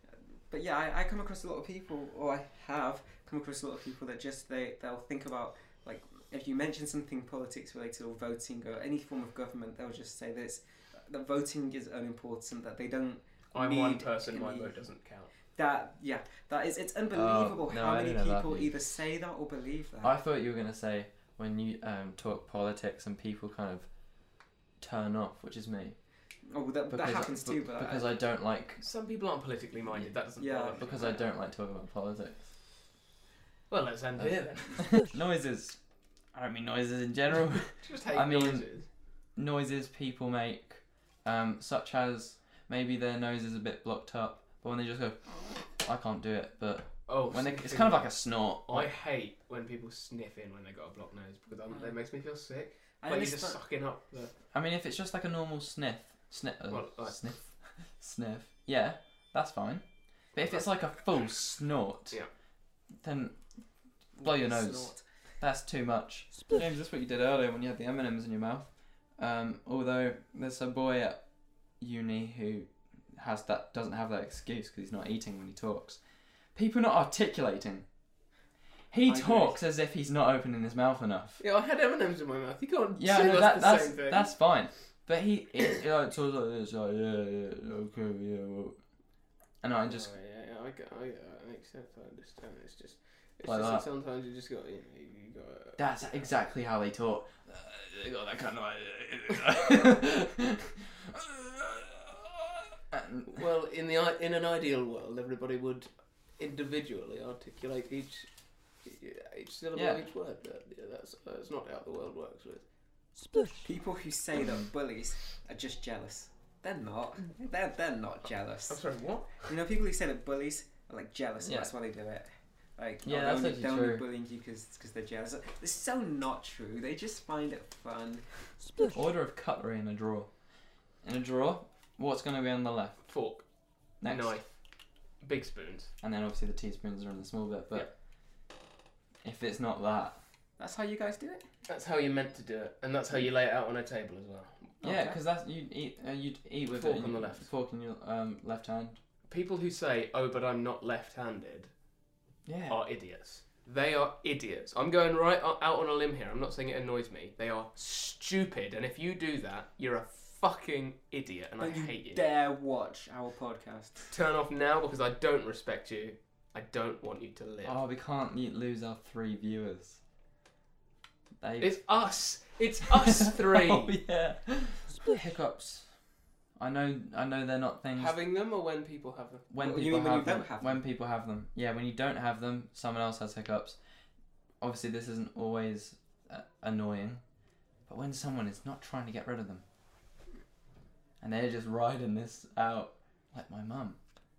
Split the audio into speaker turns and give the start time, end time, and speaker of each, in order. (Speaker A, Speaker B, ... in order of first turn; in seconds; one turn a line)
Speaker A: 0.5-14.7
Speaker B: 13.5-15.3
Speaker A: 15.5-20.1
Speaker C: 17.1-18.7
Speaker C: 20.0-23.9
Speaker C: 24.8-26.0
Speaker A: 26.4-28.1
Speaker C: 26.9-28.8
Speaker B: 28.8-31.2
Speaker A: 30.4-30.9
Speaker C: 30.8-32.5
Speaker B: 33.7-34.9
Speaker C: 34.2-35.8
Speaker C: 36.3-38.6
Speaker B: 37.7-38.9
Speaker C: 39.4-48.9
Speaker B: 47.1-48.1
Speaker B: 48.6-54.3
Speaker A: 53.0-53.6
Speaker C: 54.5-62.2
Speaker B: 56.7-57.1
Speaker B: 60.4-60.6
Speaker C: 63.0-63.4
Speaker A: 64.1-65.0
Speaker C: 64.2-71.2
Speaker C: 71.8-76.0
Speaker C: 76.5-77.8
Speaker C: 78.9-81.4
Speaker A: 79.1-79.5
Speaker B: 81.4-84.3
Speaker C: 83.0-88.8
Speaker C: 89.6-90.1
Speaker B: 89.8-95.8
Speaker C: 93.4-93.8
Speaker C: 95.8-102.4
Speaker C: 102.9-103.4
Speaker B: 103.3-108.3
Speaker B: 108.8-112.6
Speaker C: 109.7-110.1
Speaker A: 113.6-118.8
Speaker C: 114.4-114.6
Speaker B: 118.7-119.4
Speaker A: 119.4-128.3
Speaker C: 121.4-121.7
Speaker C: 123.0-124.0
Speaker C: 128.9-130.3
Speaker C: 131.0-133.0
Speaker B: 133.0-133.4
Speaker C: 134.0-134.4
Speaker B: 134.0-134.5
Speaker B: 135.2-135.9
Speaker C: 136.0-137.9
Speaker C: 139.2-140.2
Speaker A: 140.6-141.4
Speaker B: 141.7-144.7
Speaker A: 144.8-145.2
Speaker C: 144.8-149.0
Speaker B: 146.7-147.4
Speaker B: 149.3-151.7
Speaker C: 152.4-152.8
Speaker B: 152.7-162.2
Speaker A: 161.6-164.1
Speaker B: 164.1-167.8
Speaker C: 167.6-170.0
Speaker C: 171.4-171.8
Speaker B: 171.6-174.0
Speaker C: 172.9-175.9
Speaker C: 176.6-178.2
Speaker B: 177.9-179.4
Speaker C: 179.5-183.8
Speaker A: 179.6-180.8
Speaker C: 184.6-187.2
Speaker C: 187.9-189.6
Speaker C: 191.2-194.0